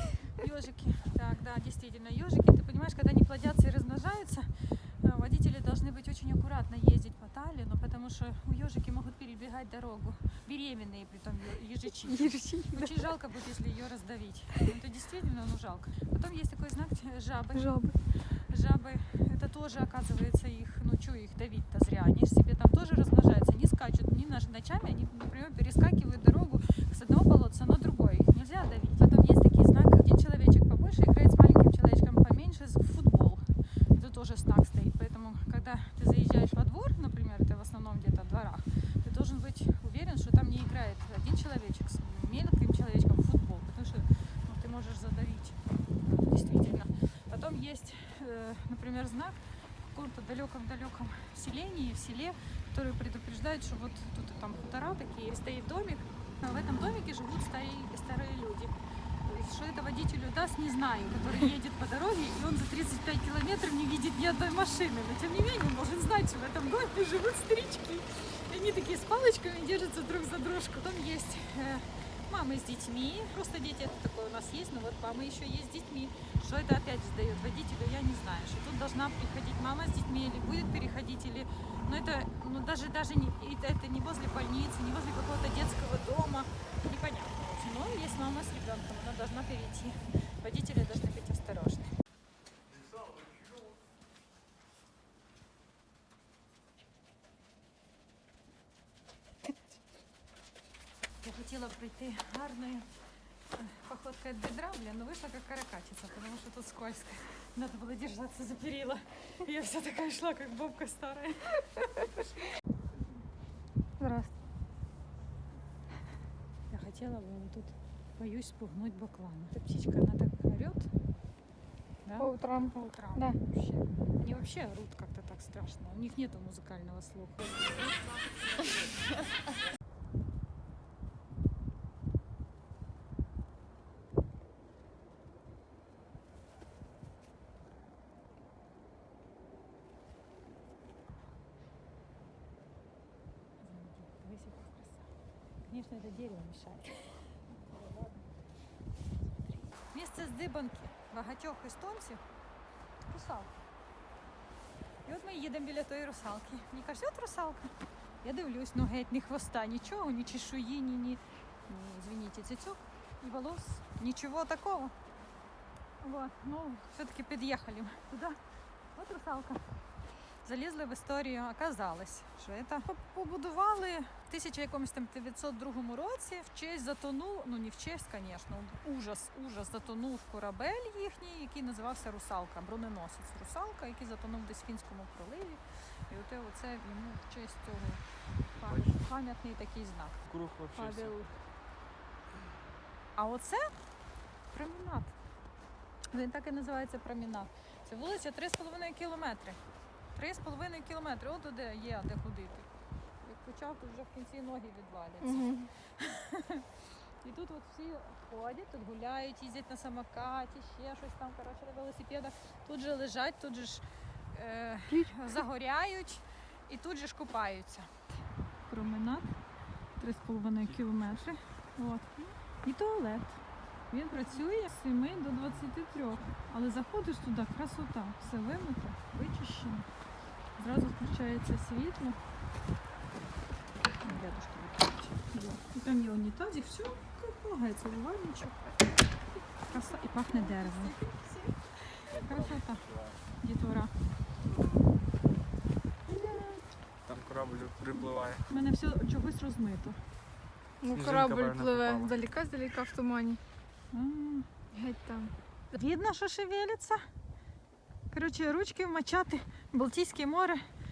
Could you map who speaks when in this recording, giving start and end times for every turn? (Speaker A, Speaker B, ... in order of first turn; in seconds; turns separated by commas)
Speaker A: 0.4-17.7, Speaker B: 12.0-12.9, Speaker B: 17.5-17.9, Speaker A: 18.3-33.4, Speaker A: 33.9-49.4, Speaker A: 49.9-58.7, Speaker A: 59.2-91.9, Speaker A: 101.2-102.9, Speaker A: 103.5-112.3, Speaker A: 114.0-114.3, Speaker A: 116.7-120.9, Speaker A: 122.0-127.7, Speaker B: 122.2-123.4, Speaker A: 143.6-145.1, Speaker A: 145.6-148.2, Speaker A: 149.8-152.2, Speaker A: 153.1-153.5, Speaker A: 155.0-164.9, Speaker A: 166.0-168.4, Speaker A: 168.9-169.6, Speaker A: 170.4-188.0, Speaker C: 188.5-189.0, Speaker A: 188.6-190.2, Speaker C: 190.2-191.3, Speaker A: 190.7-191.3, Speaker A: 193.2-193.7, Speaker A: 194.5-195.1, Speaker A: 196.1-199.6, Speaker A: 200.1-202.7, Speaker A: 203.2-217.9, Speaker B: 205.2-205.7, Speaker B: 214.9-215.2, Speaker A: 218.7-219.3, Speaker A: 220.0-229.9, Speaker C: 220.6-221.1, Speaker C: 225.0-225.8, Speaker A: 230.6-232.2, Speaker A: 234.0-238.7, Speaker A: 239.7-240.9, Speaker B: 240.7-241.4, Speaker C: 242.1-243.2, Speaker A: 242.1-242.8, Speaker A: 243.4-243.9, Speaker A: 246.2-246.5, Speaker C: 247.1-248.4, Speaker A: 248.5-250.0, Speaker B: 250.8-253.4, Speaker C: 250.9-252.2, Speaker A: 253.9-254.5, Speaker B: 254.7-255.3, Speaker A: 255.7-257.0, Speaker A: 258.1-260.6